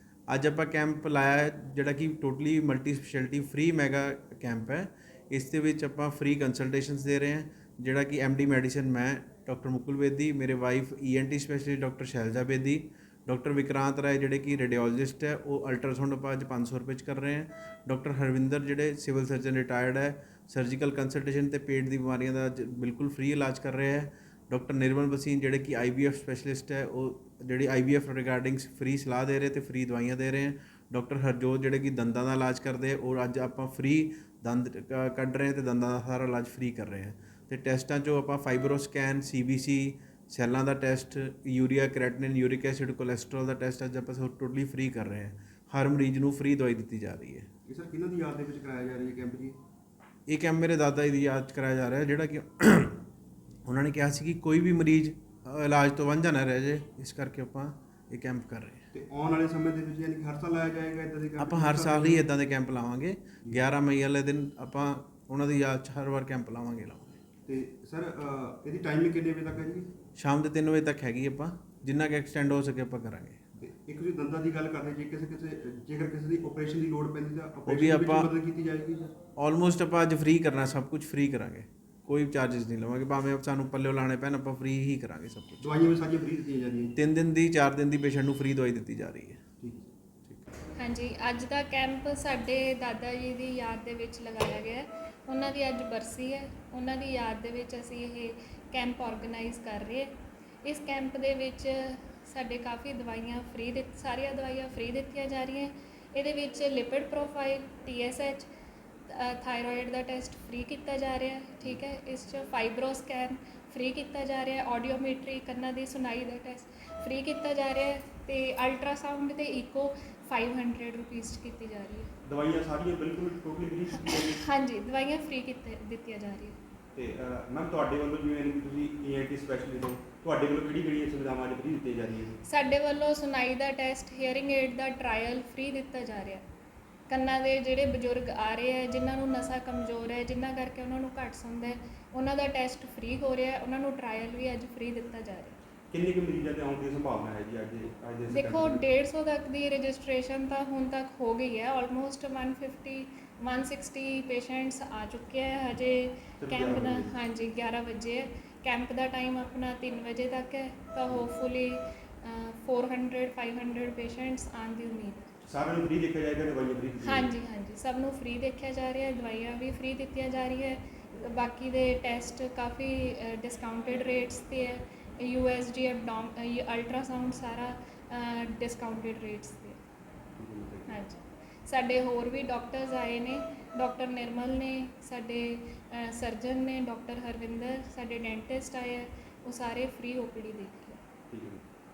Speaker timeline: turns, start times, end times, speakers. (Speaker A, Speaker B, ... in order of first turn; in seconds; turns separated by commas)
Speaker A: 0.3-47.5, Speaker B: 47.7-49.6, Speaker A: 50.3-53.0, Speaker A: 53.6-58.8, Speaker B: 58.9-62.2, Speaker A: 61.4-67.2, Speaker B: 67.5-69.9, Speaker A: 70.2-73.4, Speaker B: 73.6-79.1, Speaker A: 77.7-78.3, Speaker A: 79.3-85.7, Speaker B: 85.6-86.9, Speaker A: 86.9-89.4, Speaker B: 89.6-89.9, Speaker C: 90.8-100.1, Speaker C: 100.6-108.5, Speaker C: 109.1-122.1, Speaker B: 122.2-124.4, Speaker C: 124.0-126.6, Speaker B: 126.9-132.4, Speaker C: 132.4-136.4, Speaker C: 137.1-145.6, Speaker B: 145.9-148.8, Speaker C: 148.3-165.3, Speaker B: 156.4-157.1, Speaker B: 165.4-167.3, Speaker C: 167.0-179.8, Speaker B: 180.4-181.0, Speaker C: 180.9-191.0, Speaker B: 191.3-191.6